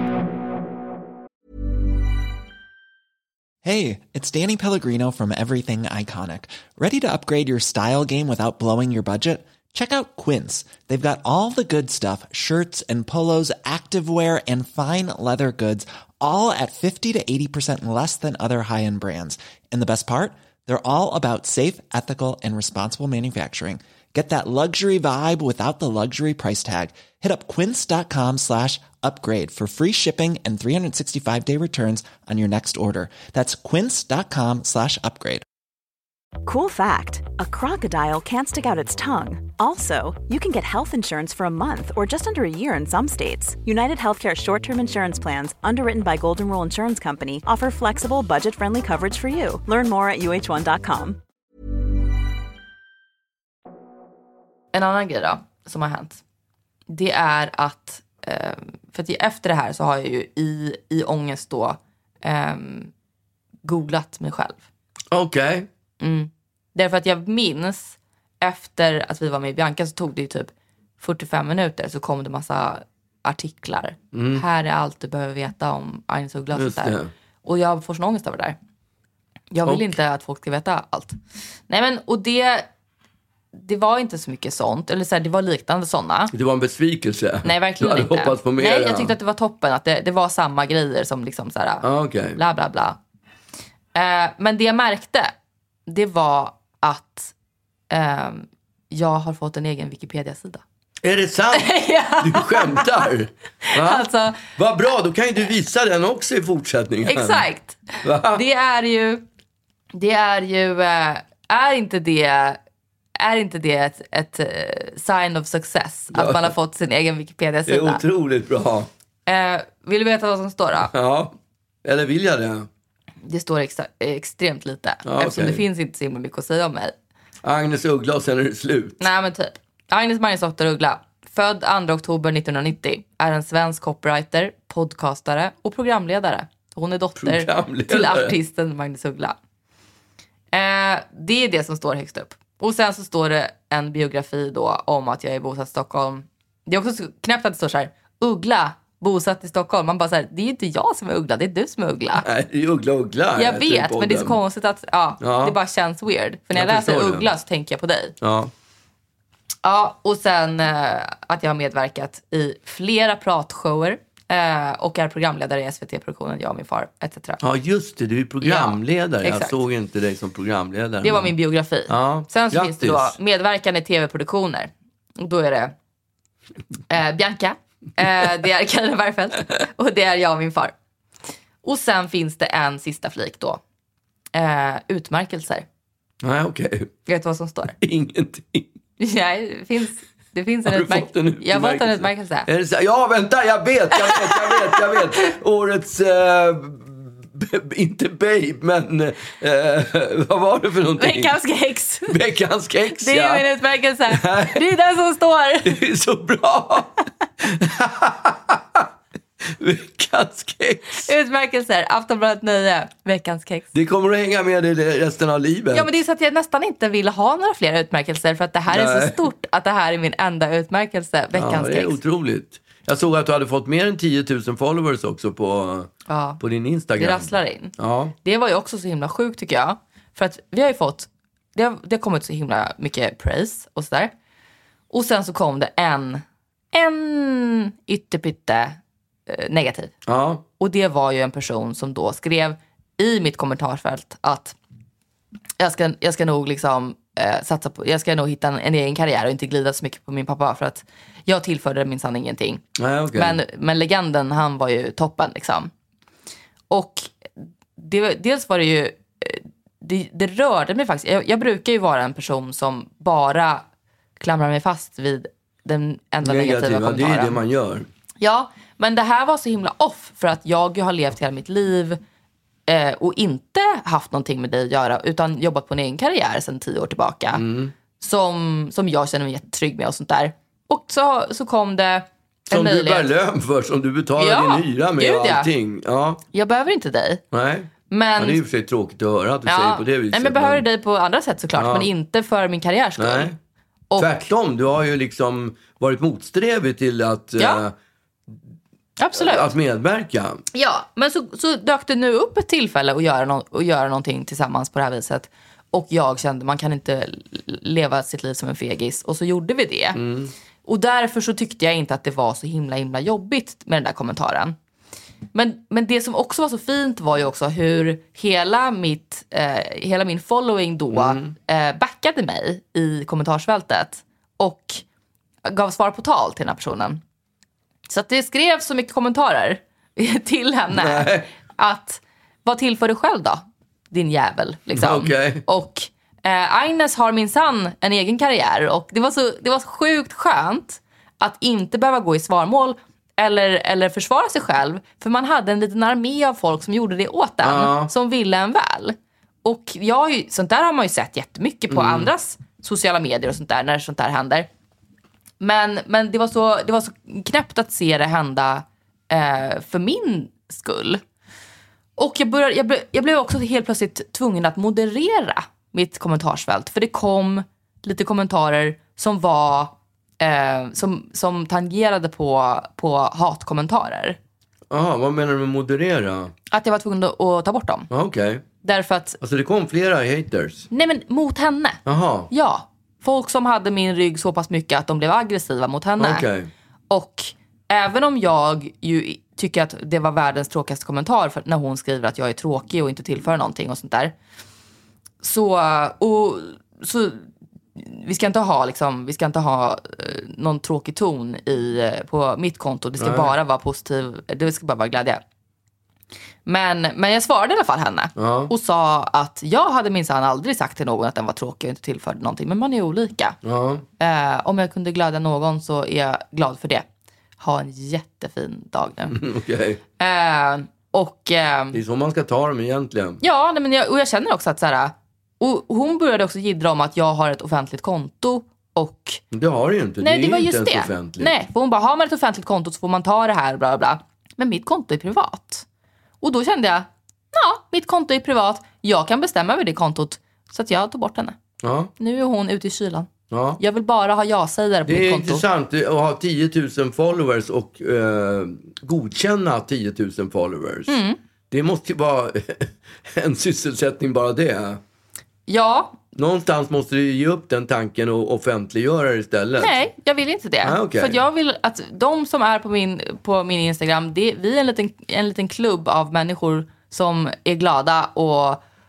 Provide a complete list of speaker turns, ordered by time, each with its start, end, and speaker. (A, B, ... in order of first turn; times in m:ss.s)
0:03.6-0:35.4 A
0:36.4-0:51.2 B
0:54.7-0:56.2 C
0:56.9-1:02.9 C
1:03.6-1:04.6 C
1:05.1-1:05.7 D
1:06.0-1:18.6 C
1:14.1-1:14.4 D
1:16.5-1:17.1 D
1:19.5-1:22.7 C
1:23.5-1:26.3 C
1:26.3-1:29.2 D
1:27.4-1:31.8 C
1:31.8-1:32.4 D
1:32.4-1:33.0 C
1:34.0-1:35.3 C
1:35.9-1:37.3 C
1:37.9-1:40.6 C
1:41.0-1:47.4 D
1:41.5-1:43.1 C
1:43.7-1:44.4 C
1:47.1-1:49.2 C
1:48.0-1:48.4 D
1:49.9-1:52.6 C
1:53.2-1:58.0 C
1:56.1-1:56.5 D
1:57.7-1:58.9 D
1:59.3-2:00.9 C
2:00.9-2:01.3 D
2:01.8-2:02.7 D
2:03.2-2:07.0 C
2:05.1-2:05.6 D
2:07.4-2:09.0 D
2:09.0-2:19.4 C
2:17.2-2:18.4 D
2:20.5-2:32.2 C
2:32.2-2:34.4 D
2:33.4-2:38.2 C
2:35.2-2:35.6 D
2:36.5-2:37.3 D
2:38.2-2:38.5 D
2:39.6-2:47.4 C
2:47.4-2:51.3 D
2:48.4-2:49.6 C
2:51.0-2:55.7 C
2:51.9-2:53.2 D
2:56.9-3:00.7 C
3:01.6-3:03.6 C
3:04.3-3:05.7 C
3:06.2-3:06.9 D
3:07.1-3:07.8 C
3:07.8-3:08.7 D
3:09.0-3:12.5 C
3:10.7-3:21.3 D
3:14.0-3:15.3 C
3:21.0-3:22.2 C
3:22.1-3:23.5 D
3:23.0-3:25.8 C
3:24.1-3:24.6 D
3:25.6-3:28.9 D
3:29.6-3:31.1 D
3:31.0-3:33.7 C
3:33.7-3:35.9 D
3:35.7-3:42.0 C
3:38.7-3:39.2 D
3:41.3-3:48.1 D
3:46.1-3:46.4 C
3:47.0-3:54.1 C
3:54.9-4:00.0 C
4:00.1-4:00.4 D
4:00.6-4:04.6 C
4:05.6-4:15.7 C
4:12.8-4:13.4 D
4:16.7-4:17.1 C
4:17.8-4:23.6 C
4:24.2-4:27.4 C
4:26.2-4:27.9 D
4:28.2-4:32.0 C
4:32.7-4:37.4 C
4:37.3-4:37.7 D
4:38.0-4:43.1 C
4:42.5-4:46.2 D
4:44.2-4:45.5 C
4:46.3-4:47.2 C
4:47.3-4:50.6 D
4:47.9-4:48.4 C
4:49.5-4:53.4 C
4:51.6-4:51.9 D
4:53.0-4:53.3 D
4:53.9-4:54.3 C
4:54.0-4:57.7 D
4:59.0-4:59.5 C
4:59.2-5:00.4 D
5:00.5-5:10.0 C
5:10.0-5:10.3 D
5:10.7-5:14.6 C
5:15.3-5:24.8 C
5:20.9-5:21.3 D
5:25.5-5:27.0 C
5:27.9-5:54.5 C
5:30.7-5:31.3 D
5:34.8-5:35.4 D
5:47.4-5:47.9 D
5:51.7-5:52.1 D
5:55.4-6:01.0 C
6:02.0-6:14.2 C
6:14.7-6:16.3 D
6:16.5-6:17.9 C
6:17.9-6:18.4 D
6:18.6-6:19.2 C
6:19.2-6:20.7 D
6:20.7-6:26.3 C
6:21.9-6:22.3 D
6:26.0-6:26.5 D
6:26.9-6:34.1 C
6:35.2-6:45.2 C
6:43.0-6:43.3 D
6:46.5-6:53.4 C
6:48.2-6:48.5 D
6:53.4-6:53.8 D
6:54.0-6:56.8 C
6:57.4-6:59.2 C
6:59.1-6:59.8 D
7:00.0-7:01.8 C
7:01.7-7:03.2 D
7:03.2-7:09.2 C
7:09.3-7:11.3 D
7:10.0-7:15.7 C
7:16.2-7:21.4 C
7:21.6-7:21.9 D
7:22.0-7:25.4 C
7:23.3-7:23.6 D
7:24.9-7:31.0 D
7:30.9-7:31.2 C
7:31.5-7:34.8 D
7:35.5-7:36.0 C
7:36.2-7:39.7 D
7:39.6-7:48.6 C
7:40.6-7:41.2 D